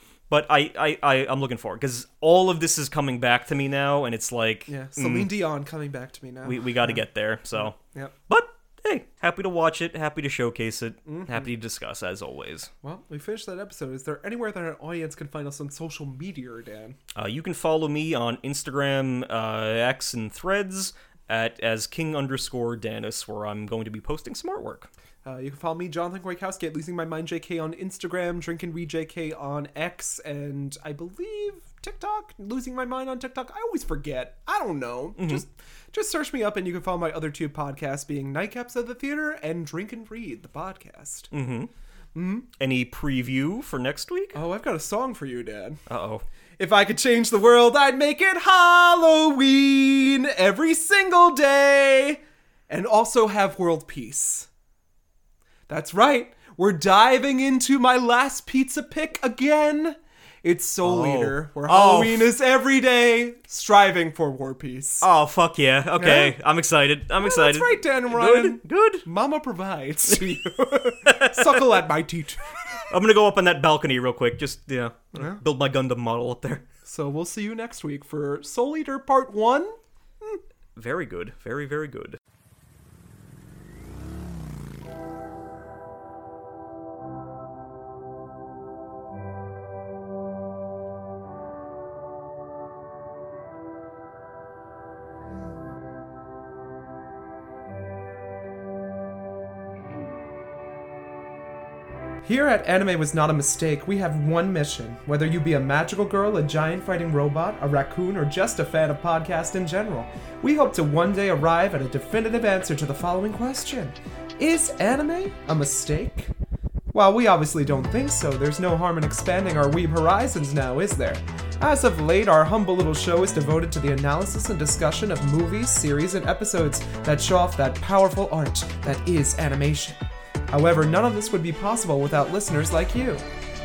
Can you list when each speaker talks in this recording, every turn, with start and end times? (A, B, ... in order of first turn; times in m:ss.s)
0:00.3-0:05.3 A
0:04.7-0:07.0 B
0:06.4-0:07.8 A
0:07.6-0:08.1 B
0:08.3-0:12.7 A
0:11.1-0:11.5 B
0:12.8-0:17.0 B
0:17.2-0:24.9 A
0:25.2-0:41.3 B
0:35.2-0:35.4 A
0:41.3-0:41.7 A
0:42.2-0:42.5 B
0:42.6-0:44.4 A
0:44.3-0:45.8 B
0:45.9-0:46.2 A
0:46.6-0:54.5 B
0:55.7-1:05.1 B
1:00.8-1:02.3 A
1:05.0-1:09.1 A
1:06.0-1:06.4 B
1:07.2-1:12.9 B
1:11.1-1:11.8 A
1:12.9-1:16.6 A
1:15.1-1:15.4 B
1:16.8-1:20.4 B
1:20.8-1:22.2 A
1:42.2-1:56.3 B
1:56.9-2:10.0 B
2:10.5-2:13.2 B